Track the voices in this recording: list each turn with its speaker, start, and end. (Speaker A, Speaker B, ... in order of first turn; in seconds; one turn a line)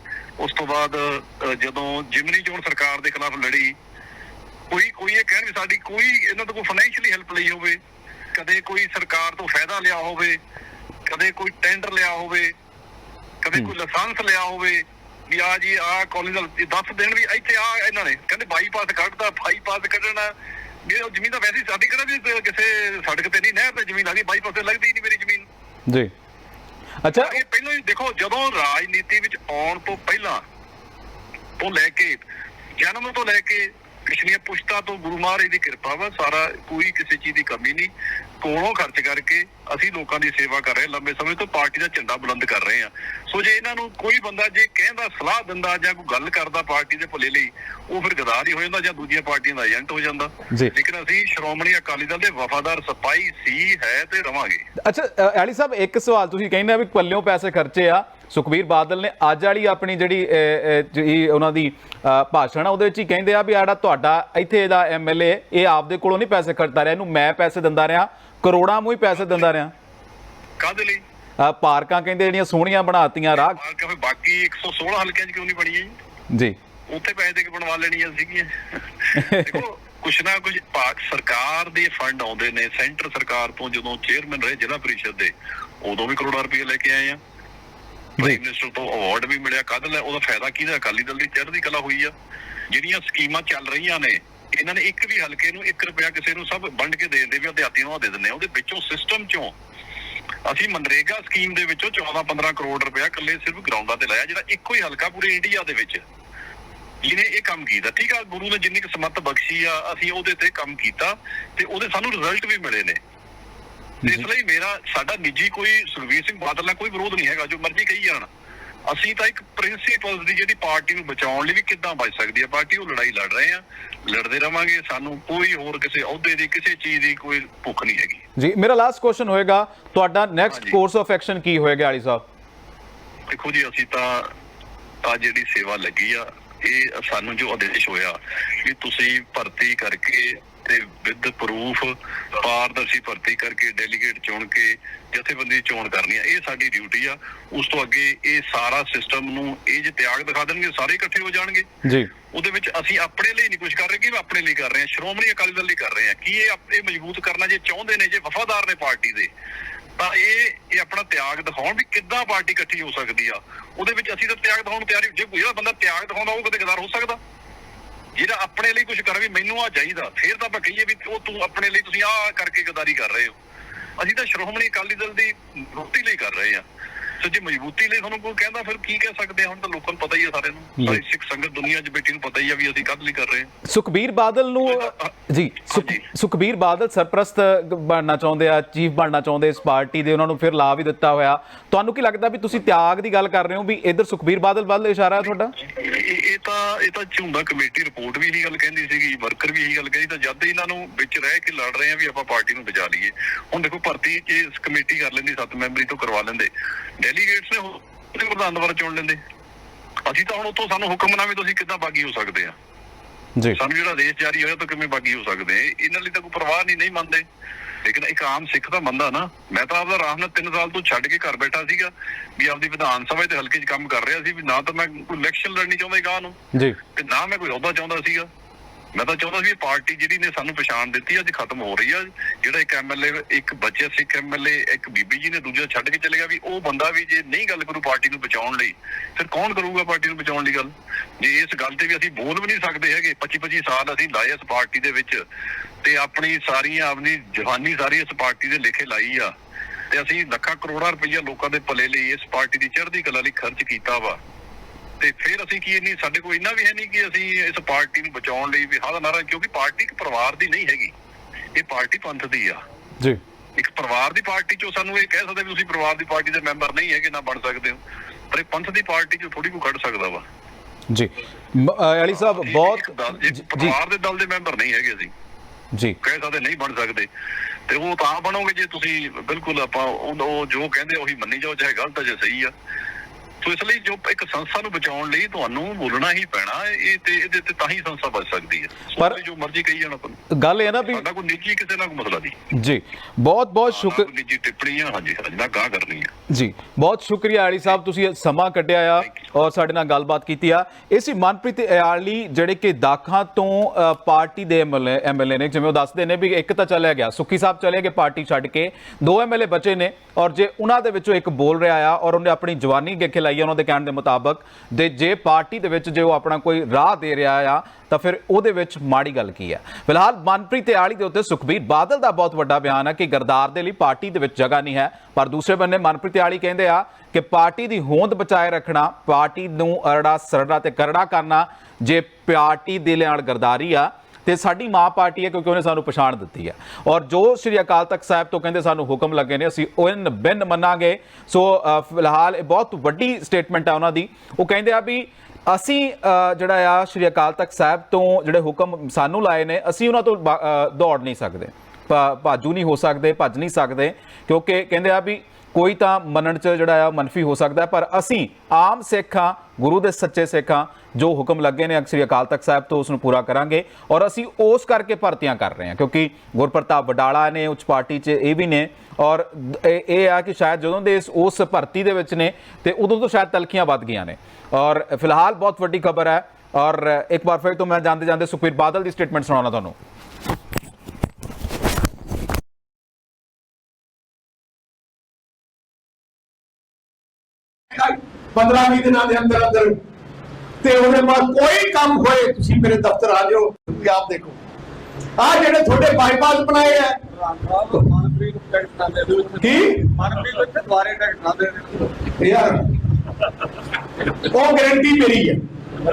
Speaker A: 0.4-3.8
Speaker A: 4.7-7.8
Speaker A: 8.3-10.4
Speaker A: 11.1-12.5
Speaker A: 13.4-20.3
Speaker A: 20.9-25.4
Speaker B: 27.0-27.4
Speaker A: 27.1-30.4
Speaker A: 31.6-32.2
Speaker A: 32.8-54.6
Speaker B: 54.8-69.7
Speaker A: 70.6-71.0
Speaker B: 71.4-73.6
Speaker A: 73.3-75.9
Speaker B: 76.3-76.6
Speaker A: 76.9-78.5
Speaker A: 79.0-87.2
Speaker B: 79.2-79.6
Speaker A: 88.2-92.1
Speaker A: 92.7-99.5
Speaker A: 100.5-106.0
Speaker A: 107.0-113.0
Speaker A: 114.0-118.3
Speaker A: 118.9-128.2
Speaker B: 128.4-132.2
Speaker A: 130.5-130.8
Speaker A: 133.3-134.3
Speaker A: 135.0-151.7
Speaker B: 151.8-152.1
Speaker A: 152.3-159.3
Speaker A: 160.0-167.2
Speaker A: 168.1-173.3
Speaker A: 174.0-176.6
Speaker A: 177.2-183.5
Speaker B: 183.6-195.5
Speaker A: 184.7-185.1
Speaker A: 185.7-186.0
Speaker A: 195.7-209.2
Speaker A: 210.1-212.5
Speaker A: 213.6-217.2
Speaker A: 217.8-226.4
Speaker A: 226.9-228.3
Speaker A: 228.9-245.2
Speaker A: 245.8-249.3
Speaker A: 249.9-254.2
Speaker A: 255.0-260.9
Speaker A: 261.6-262.6
Speaker A: 263.6-267.8
Speaker A: 268.3-270.2
Speaker B: 270.9-273.8
Speaker A: 272.1-275.1
Speaker A: 276.0-277.1
Speaker A: 277.7-282.5
Speaker A: 283.4-292.4
Speaker B: 290.3-291.0
Speaker B: 292.5-294.1
Speaker A: 293.7-296.1
Speaker B: 296.3-379.7
Speaker C: 387.7-389.7
Speaker C: 390.6-394.4
Speaker C: 395.2-396.9
Speaker D: 397.1-401.9
Speaker C: 399.4-399.9
Speaker C: 402.2-402.6
Speaker C: 404.3-405.4